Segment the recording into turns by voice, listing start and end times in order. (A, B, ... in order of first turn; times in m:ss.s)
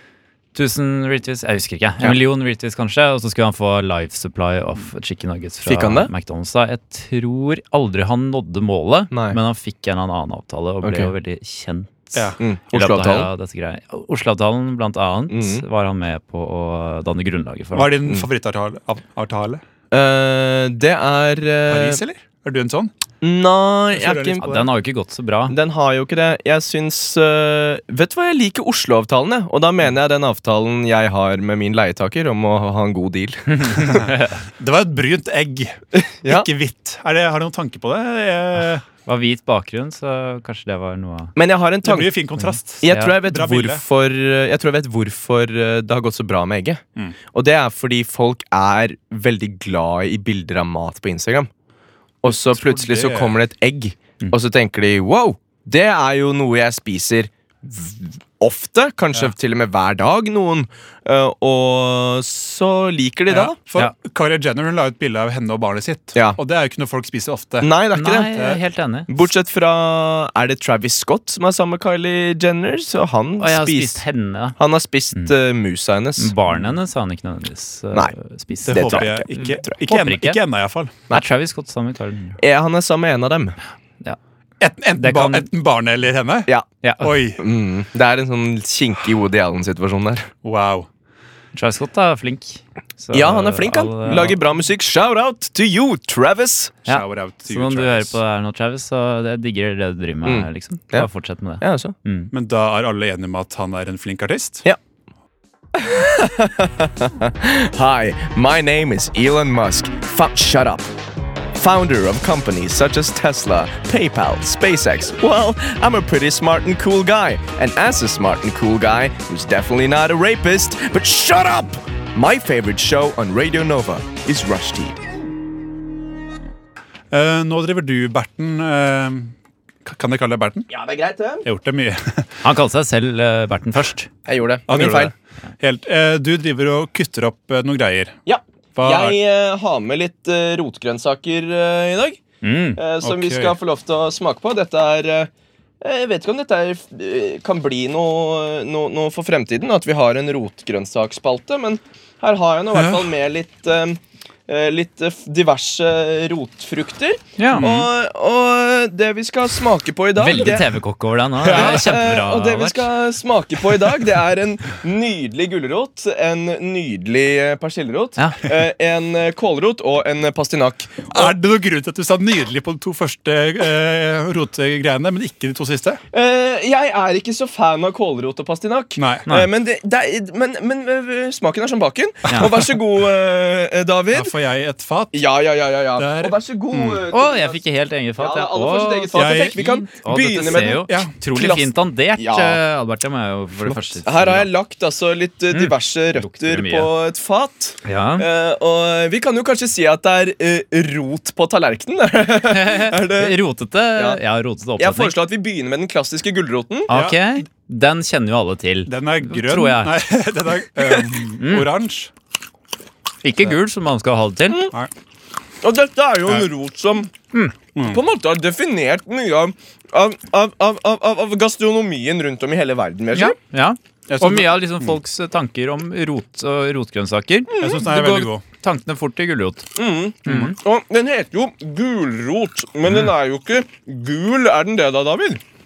0:00.5-0:18.0 A
0:05.6-0:06.1 B
0:09.1-0:09.4 B
0:10.8-0:11.1 B
0:12.4-0:13.3 B
0:15.3-0:15.6 B
0:17.7-0:19.6 C
0:19.9-0:22.0 B
0:21.7-0:22.9 C
0:23.2-0:24.5 B
0:23.9-0:24.7 C
0:24.4-0:25.5 A
0:25.5-0:34.0 B
0:33.6-0:34.4 A
0:33.8-0:38.8 C
0:35.9-0:36.5 B
0:39.0-0:41.3 A
0:41.4-0:42.1 B
0:41.8-0:43.8 C
0:42.4-0:43.1 A
0:42.8-0:46.8 B
0:47.3-0:51.5 B
0:52.2-1:03.6 B
0:52.2-0:53.3 C
1:03.3-1:07.7 C
1:07.6-1:08.3 B
1:07.9-1:09.1 A
1:08.3-1:08.6 C
1:09.1-1:14.0 B
1:13.4-1:14.6 A
1:14.6-1:16.3 B
1:16.2-1:20.4 A
1:18.6-1:21.0 C
1:18.7-1:19.7 B
1:21.1-1:22.4 A
1:22.4-1:23.6 B
1:24.6-1:26.5 C
1:25.0-1:25.5 A
1:26.8-1:27.1 A
1:27.0-1:27.4 C
1:27.4-1:30.3 B
1:30.4-1:30.9 C
1:31.5-1:34.4 A
1:33.1-1:36.8 B
1:36.8-1:38.2 C
1:36.8-1:42.3 A
1:40.2-1:41.1 B
1:41.6-1:41.9 B
1:42.3-1:44.6 C
1:45.7-1:50.9 B
1:51.5-2:05.0 B
2:07.1-2:10.7 C
2:10.7-2:11.5 B
2:11.4-2:12.3 C
2:12.4-2:14.1 A
2:14.3-2:15.1 B
2:14.7-2:18.2 C
2:18.3-2:22.2 B
2:18.8-2:19.2 C
2:22.4-2:22.8 A
2:22.8-2:40.7 B
2:23.0-2:23.5 C
2:32.7-2:33.1 C
2:37.4-2:37.6 A
2:37.5-2:37.9 C
2:40.2-2:42.8 A
2:41.4-2:41.8 C
2:41.5-2:51.3 B
2:48.2-2:48.4 A
2:51.1-2:56.0 C
2:56.1-3:04.3 B
2:59.0-2:59.3 C
3:02.3-3:02.6 A
3:04.1-3:05.2 C
3:05.1-3:07.6 B
3:06.0-3:07.0 C
3:07.1-3:14.5 A
3:08.2-3:12.6 B
3:09.1-3:09.6 C
3:10.5-3:11.1 C
3:13.6-3:13.9 C
3:14.0-3:23.4 B
3:15.5-3:16.9 A
3:17.8-3:18.3 A
3:22.5-3:25.1 A
3:24.8-3:26.9 B
3:26.9-3:30.0 A
3:26.9-3:27.2 C
3:28.9-3:32.1 C
3:31.4-3:31.7 A
3:33.2-3:34.6 A
3:34.5-3:34.7 B
3:35.6-3:37.1 B
3:37.7-3:38.0 C
3:37.8-3:43.4 B
3:43.1-3:49.7 A
3:44.1-3:44.6 C
3:47.5-3:47.8 B
3:47.6-3:48.4 C
3:49.8-3:55.4 B
3:50.2-3:50.5 A